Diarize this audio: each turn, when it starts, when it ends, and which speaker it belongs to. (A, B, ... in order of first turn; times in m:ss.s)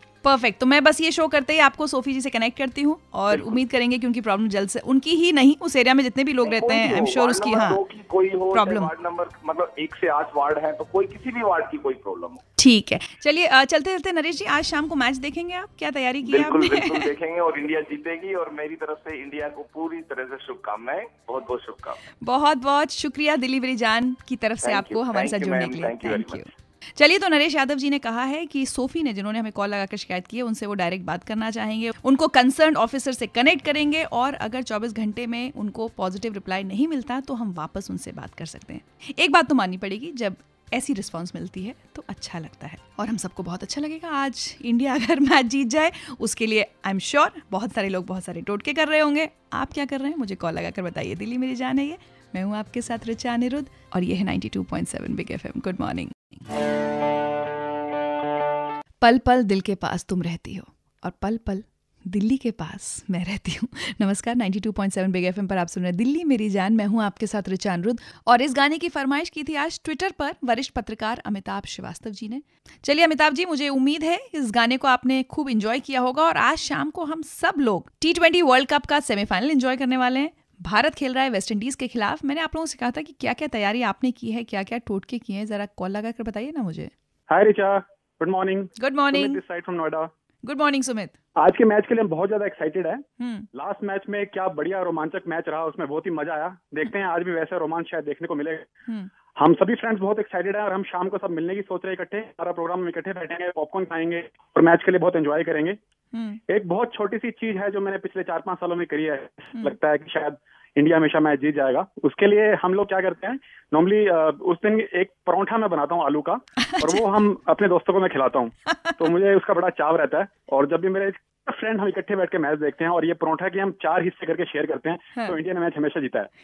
0:00.2-0:07.8 A
0:03.3-0:03.6 B
0:06.4-0:12.4 B
0:08.5-0:08.9 A
0:12.6-0:17.1 A
0:16.2-0:22.0 B
0:22.2-0:56.4 A
0:24.6-0:26.4 B
0:59.0-1:26.9 A
1:27.3-1:30.1 C
1:28.8-1:29.4 A
1:30.4-1:31.1 A
1:31.4-1:38.6 C
1:33.2-1:33.5 A
1:39.4-1:45.8 C
1:46.1-1:46.4 A
1:46.5-2:06.3 C
1:56.7-1:57.0 A